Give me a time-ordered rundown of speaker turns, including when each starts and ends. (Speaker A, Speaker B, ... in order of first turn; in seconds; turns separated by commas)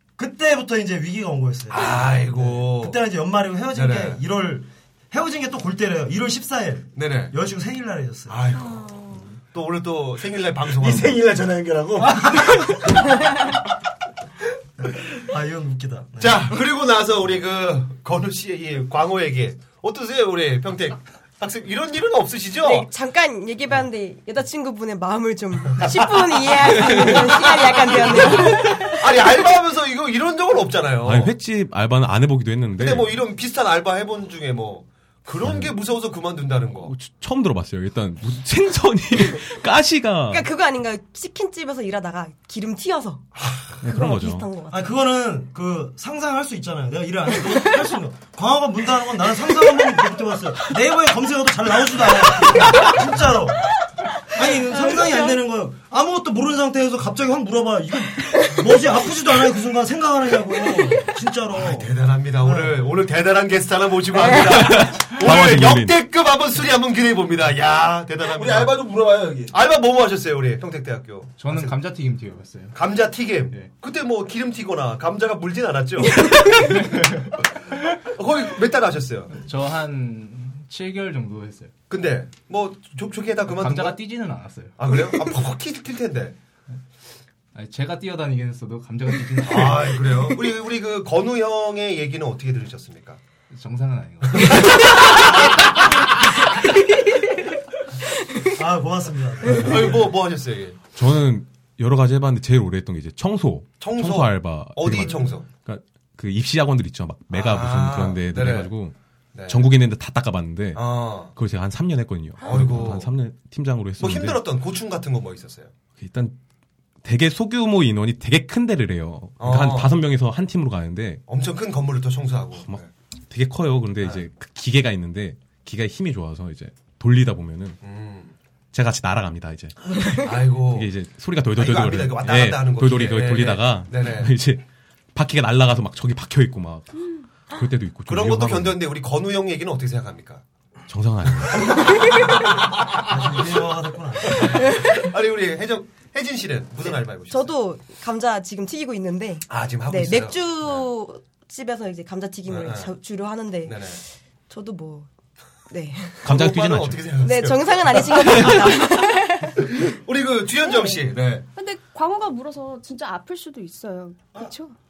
Speaker A: 0.2-8.5, Speaker B: 1.7-3.0, Speaker B: 3.7-4.2, Speaker B: 7.0-7.3, Speaker B: 8.3-11.2, Speaker C: 10.8-12.8, Speaker A: 12.0-12.9, Speaker A: 14.8-16.5, Speaker B: 16.2-22.9, Speaker D: 22.6-28.9, Speaker E: 26.8-27.6, Speaker B: 27.0-27.2, Speaker B: 27.9-31.3, Speaker E: 31.0-33.1, Speaker B: 32.8-36.9, Speaker E: 35.4-35.7, Speaker E: 36.8-40.5, Speaker D: 40.3-43.3, Speaker B: 43.4-43.7, Speaker E: 43.8-44.5, Speaker D: 43.8-44.9, Speaker A: 44.7-53.6, Speaker A: 54.3-62.8, Speaker D: 54.9-55.4, Speaker B: 61.5-68.8, Speaker E: 64.3-66.0, Speaker C: 68.3-69.5, Speaker B: 69.5-71.7, Speaker F: 71.4-72.8, Speaker B: 72.7-76.7, Speaker D: 76.2-76.5, Speaker B: 78.0-79.3, Speaker F: 79.3-81.7, Speaker B: 81.9-84.0, Speaker F: 83.5-84.9, Speaker B: 84.8-86.3, Speaker F: 87.5-90.1, Speaker B: 89.4-93.2, Speaker F: 93.5-94.9, Speaker A: 98.5-100.0, Speaker B: 99.4-100.8, Speaker E: 100.9-108.9, Speaker B: 103.8-105.5, Speaker B: 107.3-108.7, Speaker B: 109.3-109.7, Speaker E: 109.5-114.4, Speaker B: 110.7-111.3, Speaker B: 112.4-113.1, Speaker B: 114.0-115.7, Speaker E: 116.0-116.3, Speaker E: 117.0-121.2, Speaker B: 119.4-120.0, Speaker B: 121.3-122.9, Speaker E: 122.7-127.8, Speaker B: 127.8-128.3, Speaker E: 128.7-129.7, Speaker B: 130.1-130.9, Speaker E: 130.7-134.6, Speaker B: 131.5-134.3, Speaker E: 135.1-136.9, Speaker E: 137.5-138.8, Speaker B: 138.1-140.4, Speaker E: 140.9-142.1, Speaker A: 143.0-144.7, Speaker B: 144.3-147.6, Speaker D: 146.9-153.8, Speaker B: 149.5-150.9, Speaker B: 152.4-152.9, Speaker B: 153.6-154.0, Speaker D: 154.5-155.1, Speaker D: 155.7-156.2, Speaker E: 156.2-157.1, Speaker B: 156.2-158.8, Speaker D: 157.2-159.7, Speaker B: 159.7-161.4, Speaker G: 160.6-164.7